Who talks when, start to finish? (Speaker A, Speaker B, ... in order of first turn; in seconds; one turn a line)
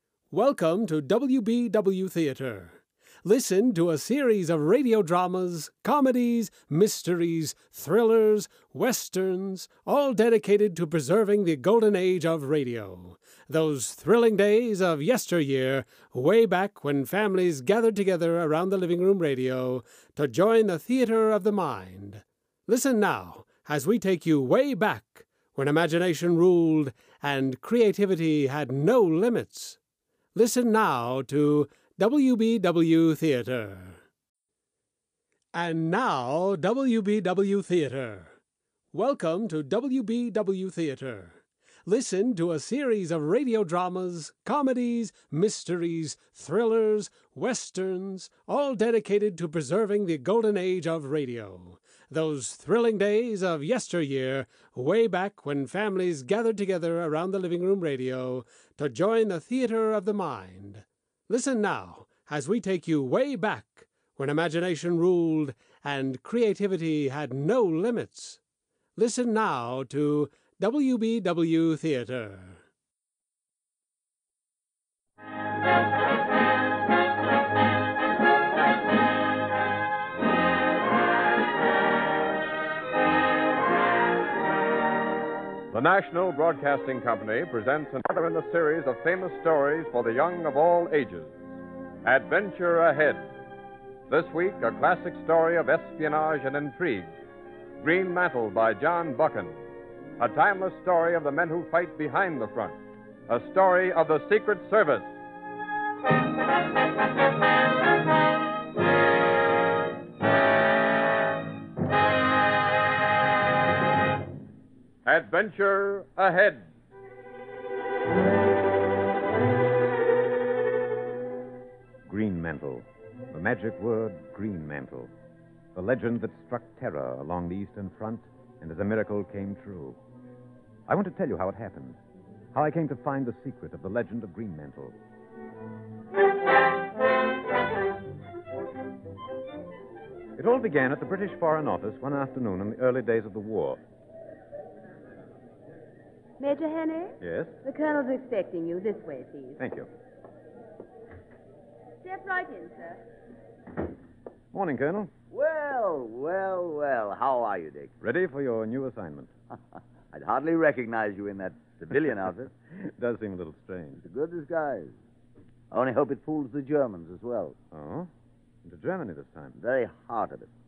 Speaker A: 0.3-29.8
Speaker A: 30.3-34.0
Speaker A: 35.5-38.3
Speaker A: 38.9-41.3
Speaker A: 41.9-68.4
Speaker A: 69.0-72.6
Speaker B: 85.7-91.4
Speaker B: 92.0-93.2
Speaker B: 94.1-97.1
Speaker B: 97.8-99.5
Speaker B: 100.2-102.8
Speaker B: 103.3-105.1
Speaker B: 115.0-116.7
Speaker C: 122.0-125.1
Speaker C: 125.7-130.0
Speaker C: 130.9-132.0
Speaker C: 132.5-134.9
Speaker C: 140.3-143.8
Speaker D: 146.4-149.6
Speaker C: 147.2-147.5
Speaker C: 149.6-149.9
Speaker D: 152.0-153.0
Speaker C: 154.5-155.1
Speaker E: 155.3-157.9
Speaker C: 158.0-159.3
Speaker E: 160.1-162.5
Speaker C: 162.7-164.0
Speaker E: 164.0-164.9
Speaker E: 165.7-167.6
Speaker C: 167.7-168.1
Speaker C: 168.6-169.6
Speaker E: 169.6-170.5